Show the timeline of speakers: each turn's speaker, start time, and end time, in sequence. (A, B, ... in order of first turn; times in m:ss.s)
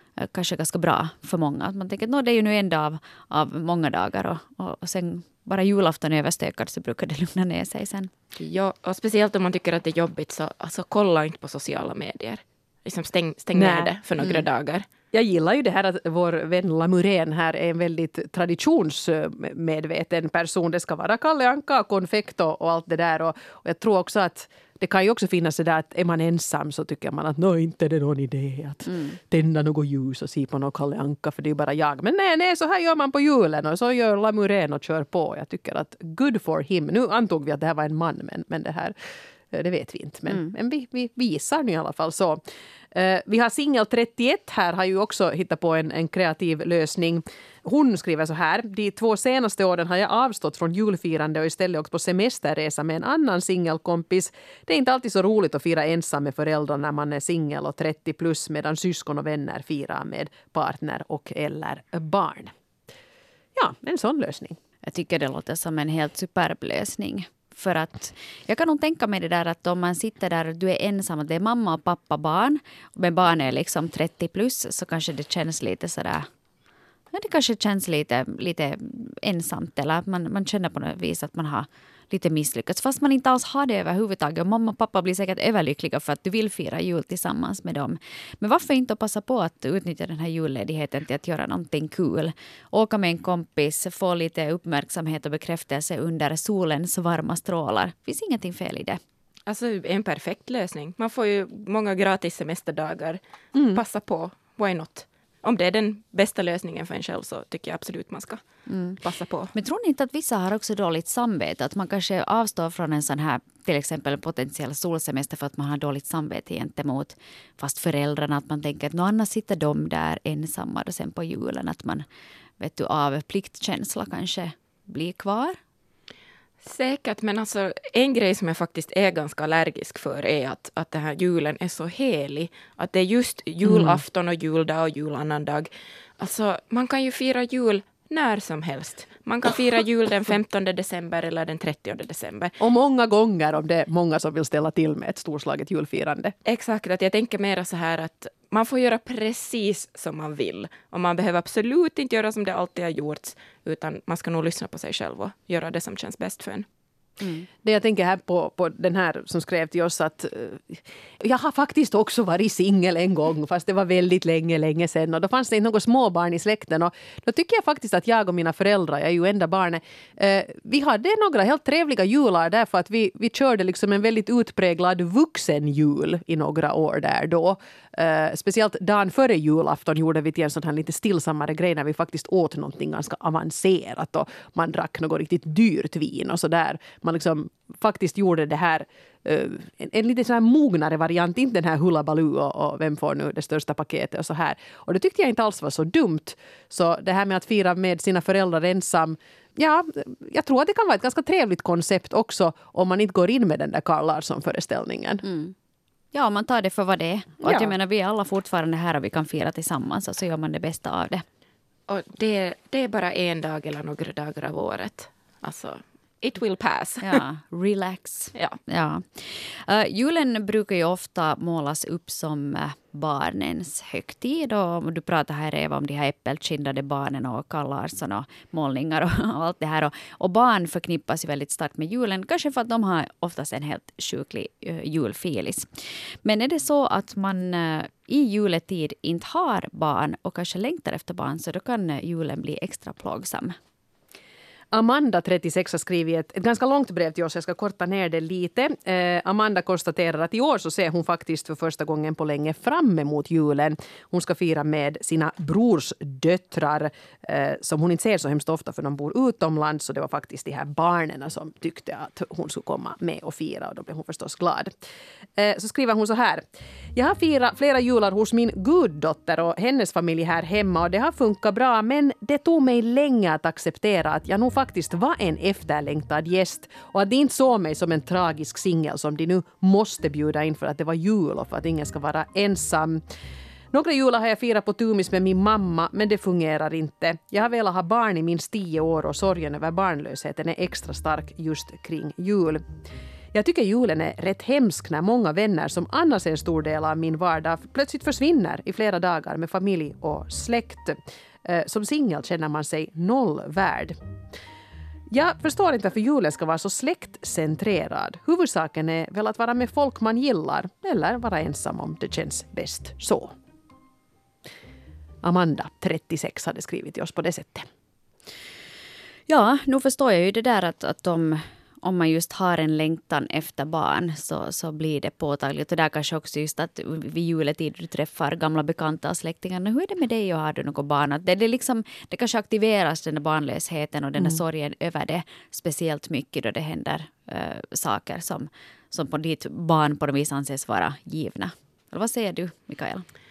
0:00.2-0:08.1 A
0:08.4-0:14.9 B
0:13.5-0:13.9 C
0:15.1-0:39.0 C
0:39.5-0:42.4 C
0:42.9-1:02.5 C
1:03.6-1:04.6 C
1:04.9-1:16.3 A
1:17.1-1:39.0 A
1:39.5-1:48.4 B
1:43.5-1:43.8 C
1:48.7-1:49.0 A
1:49.0-1:49.5 B
1:49.5-2:02.1 A
2:02.6-2:05.6 A
2:06.6-2:22.6 B
2:13.6-2:14.0 C
2:22.6-2:26.4 C
2:26.5-2:36.7 B
2:37.6-3:25.2 C
3:25.2-3:25.5 A
3:26.1-3:31.2 A
3:27.4-3:27.7 C
3:31.9-3:37.2 B
3:37.0-3:55.7 A
3:56.2-4:03.6 A
4:04.7-4:24.7 C
4:25.4-4:26.4 C
4:27.0-4:43.0 C
4:43.7-4:52.6 C
4:53.3-5:04.0 C
5:05.1-5:13.3 C
5:15.2-5:17.7 C
5:19.3-5:43.1 A